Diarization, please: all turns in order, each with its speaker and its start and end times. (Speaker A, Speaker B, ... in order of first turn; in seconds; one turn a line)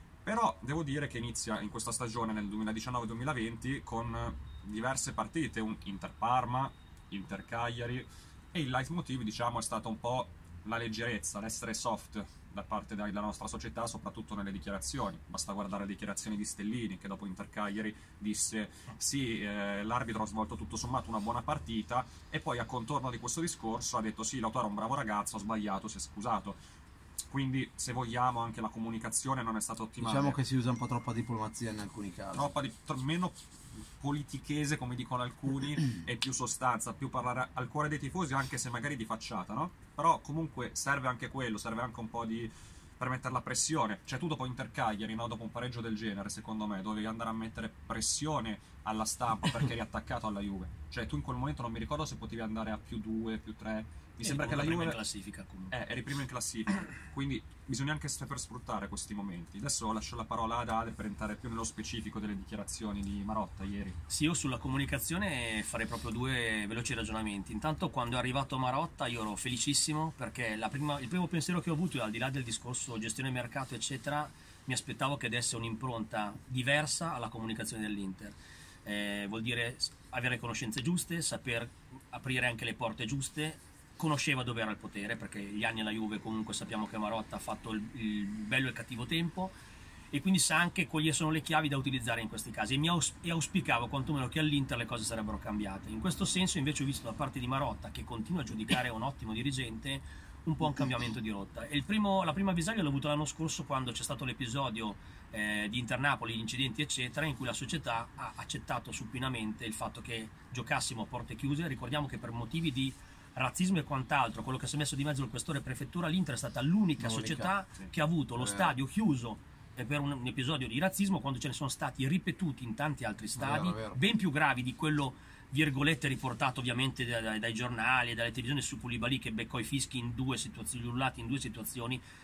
Speaker A: 0.2-26.6
Speaker A: 27.3-30.4
Speaker B: 30.0-32.5
Speaker A: 32.3-33.4
Speaker A: 34.0-55.0
Speaker C: 54.2-55.8
Speaker A: 55.7-64.0
Speaker C: 64.1-89.5
Speaker C: 90.1-132.0
Speaker B: 100.6-100.9
Speaker B: 117.0-117.5
Speaker B: 118.4-118.8
Speaker B: 123.4-124.0